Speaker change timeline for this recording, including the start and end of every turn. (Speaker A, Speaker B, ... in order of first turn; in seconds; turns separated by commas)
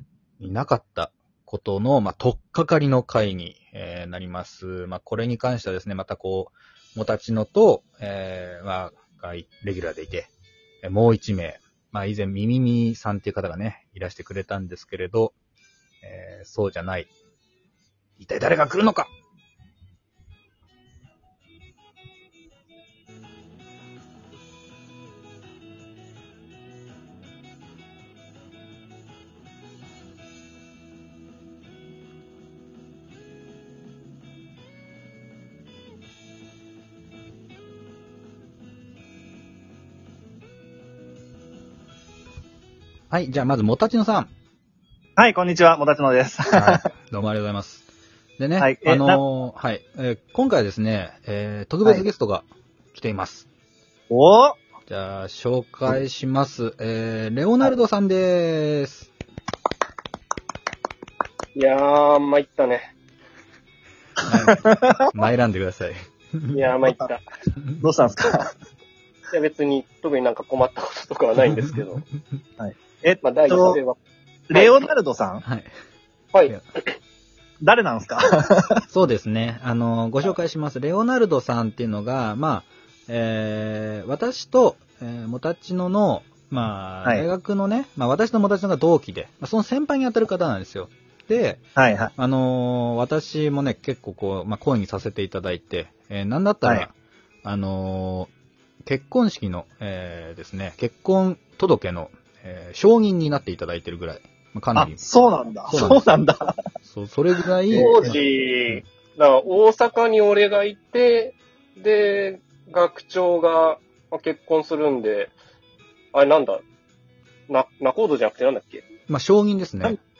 Speaker A: 0.4-10.3, Speaker A: 10.8-15.4, Speaker A: 16.0-17.1, Speaker A: 18.2-19.1, Speaker A: 43.1-44.3, Speaker B: 45.2-46.9, Speaker A: 46.5-47.9, Speaker A: 48.4-53.5, Speaker B: 48.6-49.2, Speaker B: 54.1-54.6, Speaker A: 54.9-59.1, Speaker C: 61.6-62.9, Speaker A: 64.2-66.7, Speaker B: 64.6-65.0, Speaker C: 66.5-67.2, Speaker B: 67.8-68.5, Speaker C: 69.3-72.0, Speaker B: 72.6-73.8, Speaker C: 73.2-74.0, Speaker B: 74.5-75.4, Speaker A: 75.5-75.7, Speaker C: 76.3-77.0, Speaker B: 77.6-78.8, Speaker A: 78.9-91.6, Speaker B: 91.8-92.1, Speaker A: 92.2-98.3, Speaker A: 98.9-105.0, Speaker B: 104.8-106.6, Speaker A: 105.7-106.1, Speaker A: 106.8-108.2, Speaker B: 107.7-108.1, Speaker C: 107.7-115.3, Speaker C: 116.1-116.6, Speaker C: 117.5-118.8, Speaker A: 119.1-120.0